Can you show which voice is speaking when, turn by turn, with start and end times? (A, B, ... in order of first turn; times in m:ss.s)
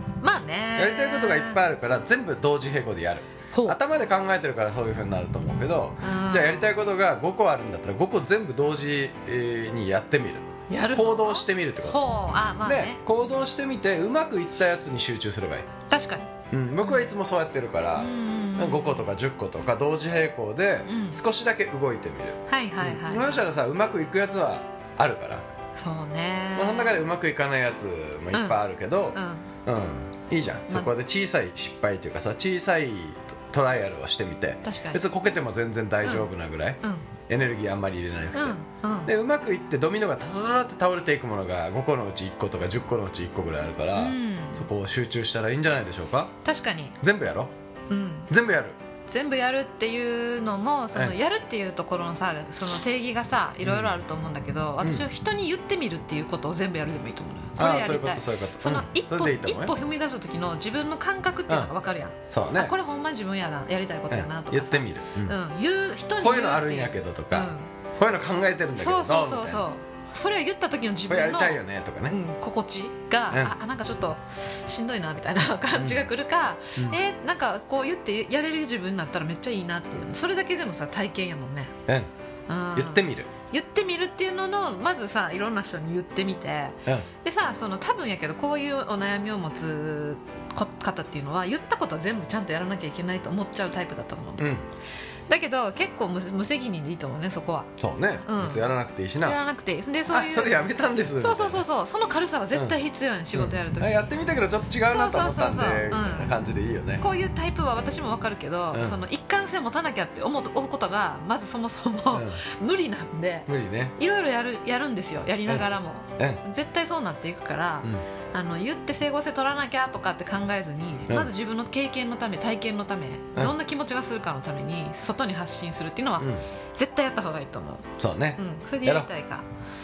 0:00.2-0:01.6 A
0:00.8-0:12.0 B
0:03.5-0:03.8 A
0:06.0-0:06.7 A
0:10.7-0:13.0 A
0:12.6-0:15.6 B
0:15.9-0:16.3 A
0:16.5-0:25.4 B
0:16.8-0:17.1 A
0:18.0-0:19.1 A
0:20.8-0:21.2 A
0:22.5-0:23.4 A
0:25.7-0:27.0 A
0:26.5-0:46.3 B
0:28.3-0:29.5 A
0:34.6-0:35.0 A
0:36.0-0:36.3 A
0:36.8-0:37.1 A
0:38.3-0:39.1 A
0:43.9-0:44.7 A
0:46.4-0:47.0 A
0:47.0-0:47.5 B
0:47.9-0:48.3 A
0:48.3-0:48.8 B
0:49.1-1:07.7 A
0:53.6-0:54.0 B
0:54.8-0:55.1 B
0:57.6-0:59.7 B
1:02.3-1:02.7 B
1:04.1-1:05.4 B
1:06.2-1:09.6 B
1:08.8-1:21.7 A
1:11.1-1:12.2 B
1:13.3-1:13.6 B
1:15.7-1:16.0 B
1:22.5-1:34.5 A
1:22.7-1:23.3 B
1:34.4-1:34.7 B
1:35.3-1:38.7 A
1:37.8-1:39.4 B
1:39.2-1:40.6 A
1:40.1-1:41.6 B
1:41.2-1:44.1 A
1:42.5-1:42.8 B
1:43.3-1:47.0 B
1:44.8-1:46.4 A
1:47.0-2:09.5 A
1:48.7-1:49.0 B
1:52.1-1:52.4 B
1:53.5-1:53.9 B
2:06.2-2:06.4 B
2:08.0-2:09.1 B